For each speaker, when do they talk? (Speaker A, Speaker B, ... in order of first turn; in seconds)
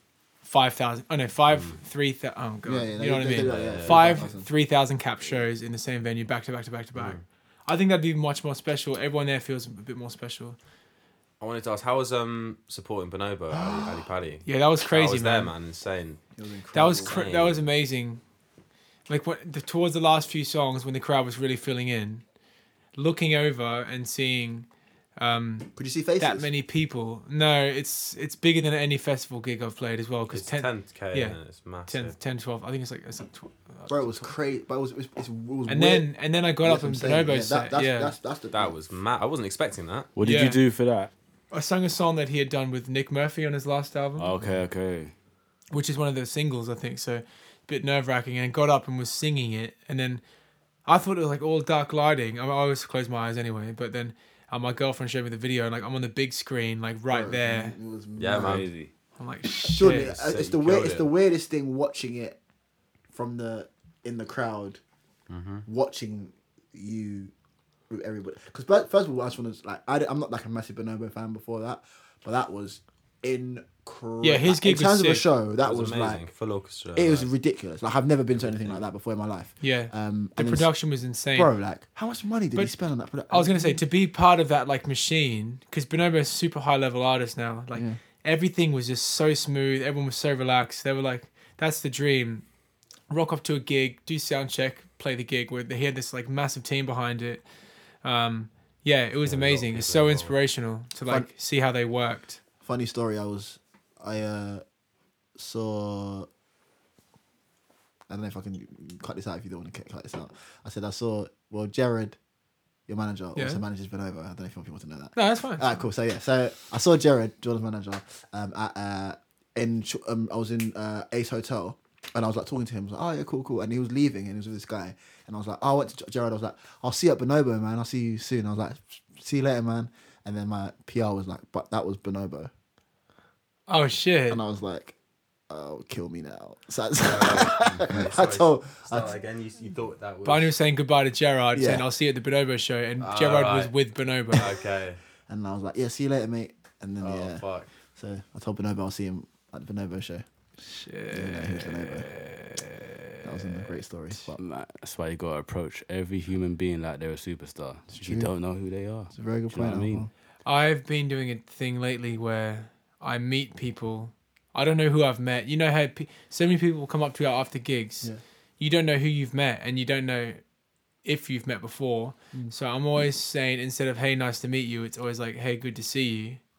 Speaker A: 0.4-10.6, 14.4-15.5, 16.7-18.2, 19.1-22.2, 22.9-34.3, 35.7-38.1, 40.2-40.6, 41.5-44.3, 45.7-50.2, 50.9-57.8, 59.2-60.1, 74.2-75.3, 79.6-81.5, 83.3-92.5, 93.1-97.5, 98.0-102.4, 113.4-113.6, 115.2-115.7, 133.7-134.4, 140.2-144.6, 150.6-153.4, 160.4-170.4, 171.0-176.4
Speaker B: 2.7-4.5, 13.5-14.1, 16.4-17.2, 25.8-26.5, 33.9-36.1, 36.6-38.7, 57.1-58.7, 59.6-62.4, 63.1-64.8, 65.7-67.3, 67.9-76.2, 77.0-80.7, 81.3-83.8, 102.6-104.6, 105.4-106.3, 108.1-112.2, 112.9-132.5, 134.3-134.9, 135.5-139.2, 141.5-141.9, 145.3-147.4, 147.9-150.2, 151.1-152.1, 153.2-154.4, 158.0-158.3, 159.1-160.1
Speaker C: 3.4-4.2, 11.4-16.2, 17.0-17.6, 30.3-32.1, 38.5-40.1, 58.2-58.7, 59.9-61.1, 65.3-65.7, 75.6-77.3, 78.3-78.8, 99.2-100.3, 137.0-140.5, 143.0-143.7, 144.3-145.0, 147.0-147.7
Speaker D: 40.2-41.1, 44.2-45.1, 58.4-58.9, 154.3-160.1